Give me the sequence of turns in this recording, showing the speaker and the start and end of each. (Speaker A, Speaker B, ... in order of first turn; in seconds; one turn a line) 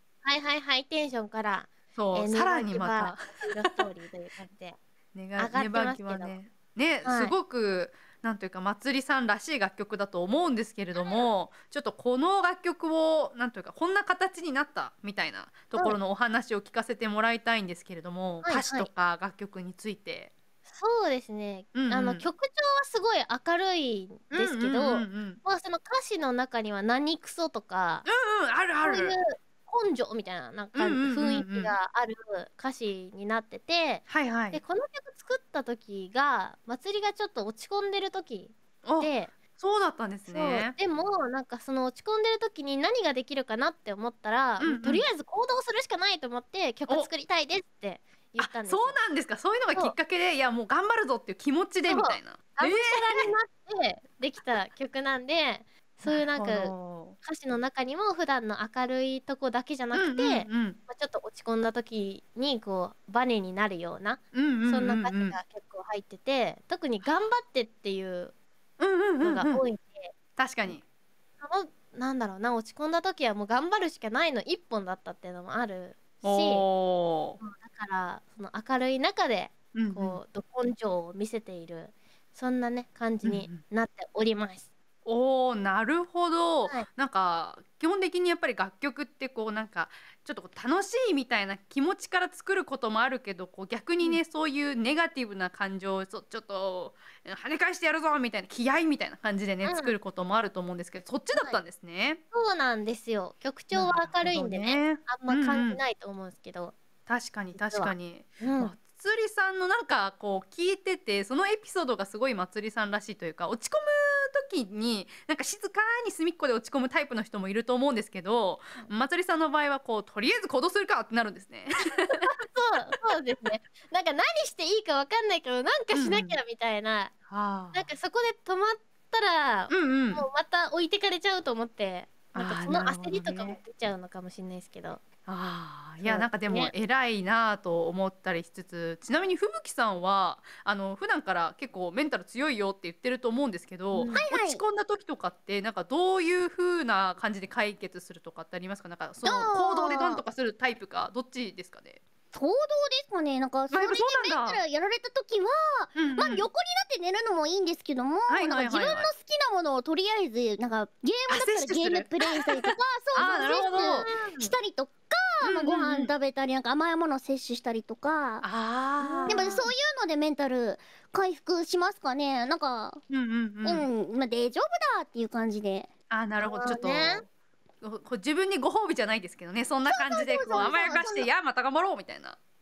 Speaker A: 0.2-4.8
Speaker B: 1.9-3.8
Speaker B: 5.2-20.3
Speaker A: 5.4-6.3
Speaker A: 7.0-7.3
Speaker A: 18.4-18.9
Speaker A: 20.7-28.1
Speaker B: 21.7-22.3
Speaker B: 24.3-25.4
Speaker B: 28.1-29.2
Speaker A: 28.8-39.3
Speaker B: 30.8-31.8
Speaker B: 34.1-34.6
Speaker B: 38.9-40.8
Speaker A: 40.3-49.0
Speaker B: 44.6-45.1
Speaker B: 48.4-53.3
Speaker A: 51.9-68.3
Speaker B: 56.1-57.2
Speaker B: 59.9-60.8
Speaker B: 64.3-65.4
Speaker B: 68.8-69.7
Speaker A: 69.2-70.1
Speaker B: 70.4-70.8
Speaker A: 71.4-76.7
Speaker B: 76.2-77.4
Speaker A: 77.4-84.7
Speaker B: 79.8-80.2
Speaker B: 83.2-83.6
Speaker B: 85.1-102.2
Speaker A: 99.6-99.9
Speaker A: 102.3-106.8
Speaker B: 103.7-105.8
Speaker B: 107.1-122.3
Speaker A: 107.5-108.7
Speaker A: 122.1-127.1
Speaker B: 125.9-126.4
Speaker B: 127.3-127.9
Speaker A: 127.7-135.0
Speaker B: 129.7-130.3
Speaker B: 132.3-133.6
Speaker B: 135.3-152.0
Speaker A: 136.0-136.7
Speaker A: 143.9-144.2
Speaker C: 144.1-144.6
Speaker C: 149.2-150.2
Speaker C: 152.3-168.4
Speaker B: 153.7-154.6
Speaker B: 155.9-156.5
Speaker B: 158.3-159.1
Speaker B: 161.3-164.1
Speaker A: 163.2-164.5
Speaker B: 165.4-166.1
Speaker B: 168.4-169.7
Speaker A: 169.0-169.6
Speaker C: 169.3-173.0
Speaker B: 173.1-173.9
Speaker C: 173.6-175.9
Speaker B: 176.1-177.2
Speaker A: 176.4-177.2
Speaker B: 177.8-182.4
Speaker C: 179.9-181.3